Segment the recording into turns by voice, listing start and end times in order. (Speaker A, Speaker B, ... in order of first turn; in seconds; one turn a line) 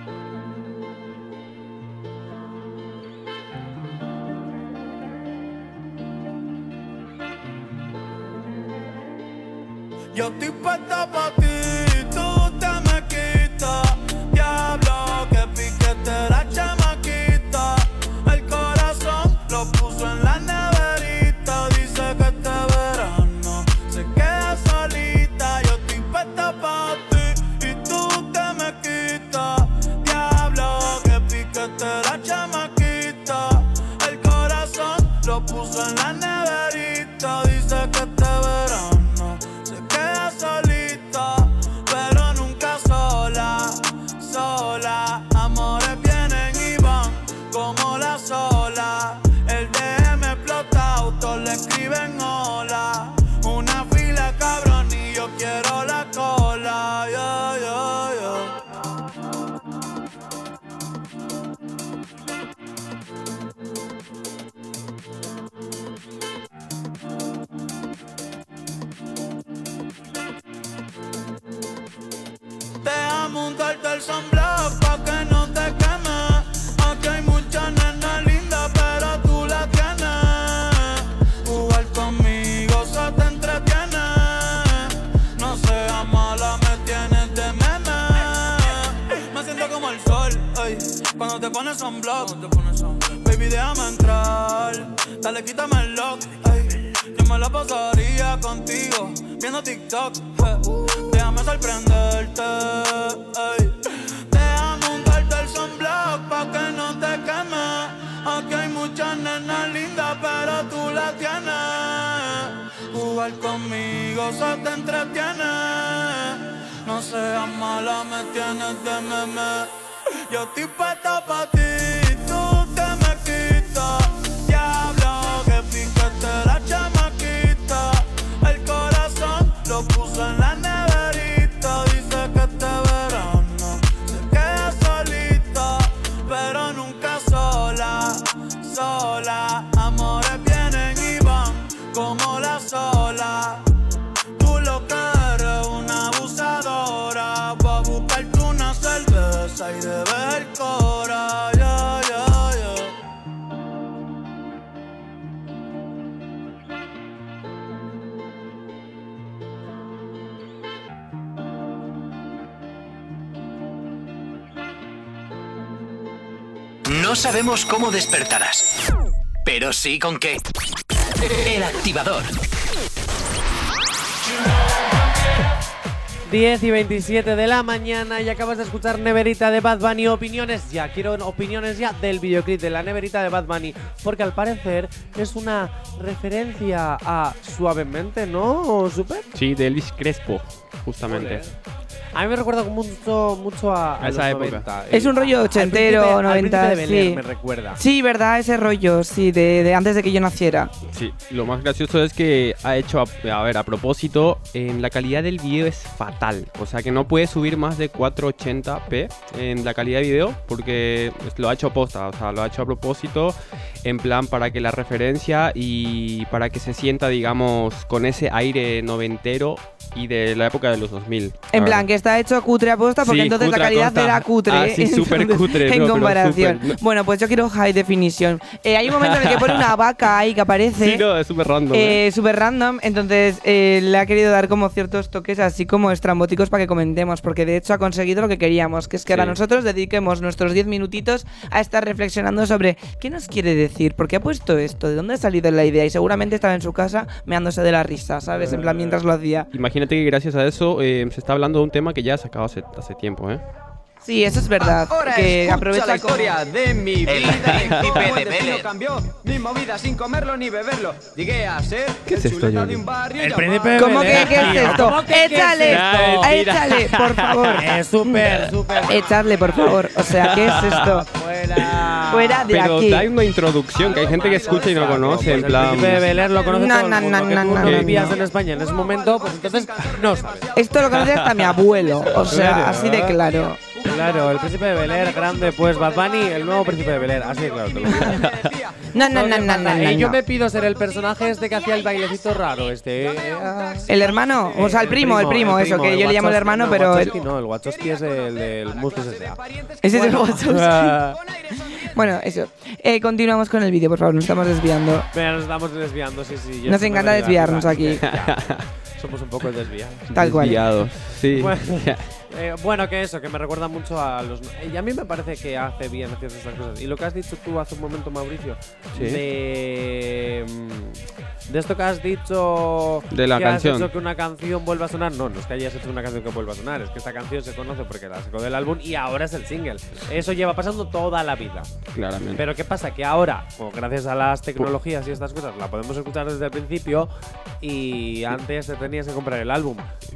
Speaker A: 10.1-58.6
Speaker A: 72.8-119.7
Speaker A: 120.3-143.6
Speaker A: 144.4-152.9
Speaker B: 166.8-168.7
Speaker B: 169.4-170.4
Speaker B: 171.4-172.3
Speaker C: 176.2-189.3
Speaker D: 189.3-191.4
Speaker C: 191.1-191.5
Speaker C: 192.1-197.8
Speaker D: 194.0-194.7
Speaker E: 194.9-197.2
Speaker E: 197.8-200.7
Speaker D: 200.9-221.9
Speaker E: 221.5-231.0
Speaker D: 223.0-226.8
Speaker D: 228.9-229.7
Speaker D: 230.8-232.0
Speaker E: 231.7-249.5
Speaker D: 239.1-239.4
Speaker C: 248.3-249.0
Speaker D: 249.5-253.4
Speaker E: 254.0-256.4
Speaker F: 254.6-264.3
Speaker B: 257.1-258.6
Speaker D: 257.4-258.1
Speaker D: 262.1-262.9
Speaker C: 263.2-266.4
Speaker E: 263.8-268.2
Speaker D: 264.3-265.1
Speaker D: 265.6-267.7
Speaker C: 267.5-272.5
Speaker E: 268.9-271.1
Speaker D: 270.0-271.0
Speaker E: 272.1-273.1
Speaker D: 272.5-276.1
Speaker F: 273.8-276.8
Speaker C: 273.8-280.5
Speaker E: 276.4-278.2
Speaker D: 277.5-278.1
Speaker F: 278.1-289.1
Speaker E: 280.5-283.6
Speaker D: 280.8-281.6
Speaker D: 282.1-282.7
Speaker C: 282.2-283.2
Speaker C: 283.8-288.2
Speaker D: 288.0-288.5
Speaker E: 288.9-290.2
Speaker C: 289.0-299.4
Speaker F: 291.1-294.8
Speaker E: 293.9-297.1
Speaker F: 296.6-300.5
Speaker E: 299.8-301.0
Speaker C: 299.9-301.2
Speaker F: 301.1-302.0
Speaker E: 301.9-305.1
Speaker C: 305.1-331.7
Speaker E: 306.6-308.0
Speaker D: 308.0-308.7
Speaker D: 310.1-312.1
Speaker E: 310.1-310.6
Speaker D: 318.9-319.2
Speaker D: 323.1-323.9
Speaker D: 331.9-332.4
Speaker C: 332.3-337.1
Speaker C: 337.6-339.9